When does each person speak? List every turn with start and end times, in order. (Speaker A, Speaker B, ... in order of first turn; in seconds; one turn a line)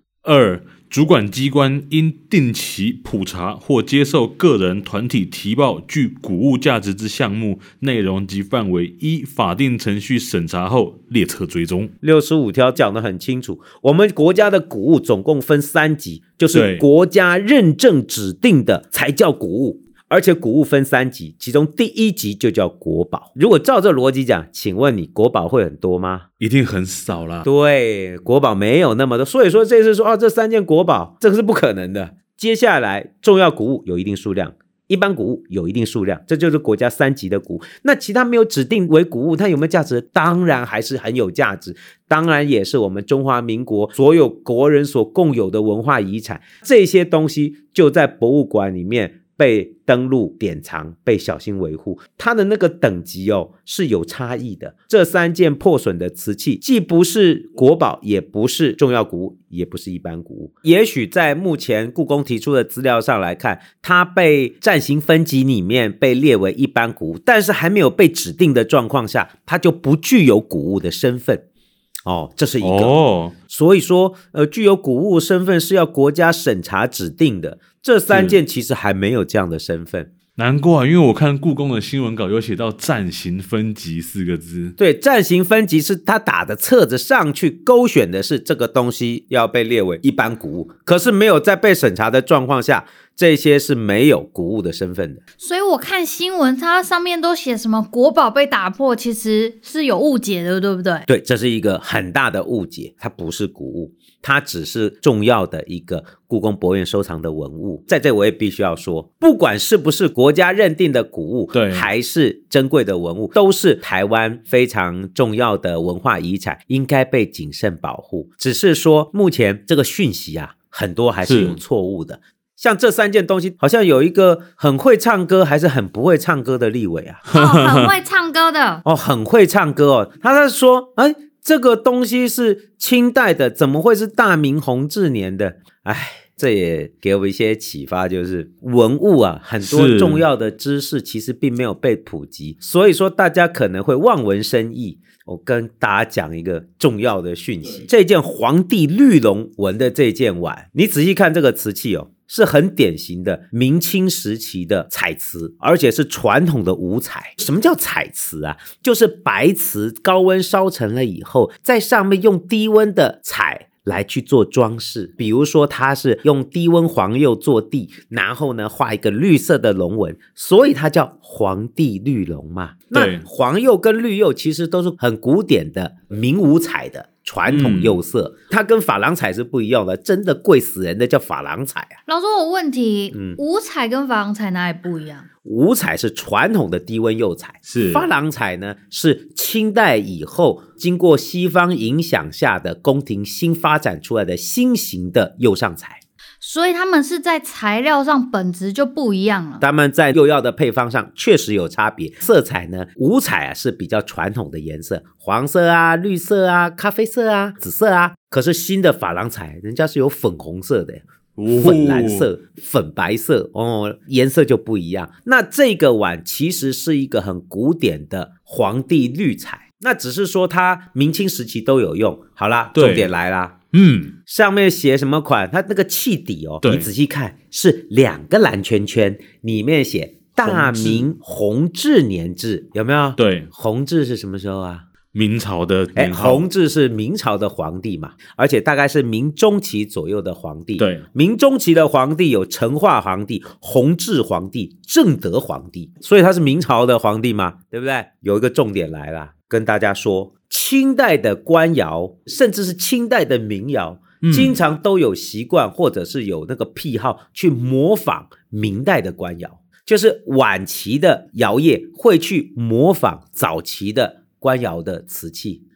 Speaker A: 0.2-11.9
Speaker B: 12.0-26.2
Speaker A: 16.5-16.9
Speaker A: 26.4-27.5
Speaker B: 27.4-71.5
Speaker B: 72.0-73.0
Speaker A: 72.6-73.3
Speaker B: 73.5-80.1
Speaker A: 78.1-78.4
Speaker A: 80.4-84.8
Speaker B: 84.8-95.2
Speaker C: 95.4-101.1
Speaker B: 101.1-127.2
Speaker A: 111.5-111.9
Speaker A: 121.2-121.6
Speaker A: 127.3-127.9
Speaker C: 127.3-128.8
Speaker B: 128.8-182.0
Speaker A: 139.6-140.2
Speaker A: 172.9-173.2
Speaker A: 177.5-178.0
Speaker C: 182.1-185.3
Speaker B: 183.1-183.4
Speaker B: 185.4-196.0
Speaker A: 187.7-188.1
Speaker C: 196.4-199.6
Speaker B: 199.6-223.6
Speaker A: 211.4-212.3
Speaker A: 222.8-223.1
Speaker A: 223.7-224.2
Speaker B: 224.3-234.8
Speaker A: 230.4-231.1
Speaker A: 233.2-233.5
Speaker A: 235.1-236.4
Speaker B: 236.0-265.6
Speaker A: 240.8-241.1
Speaker A: 254.2-254.6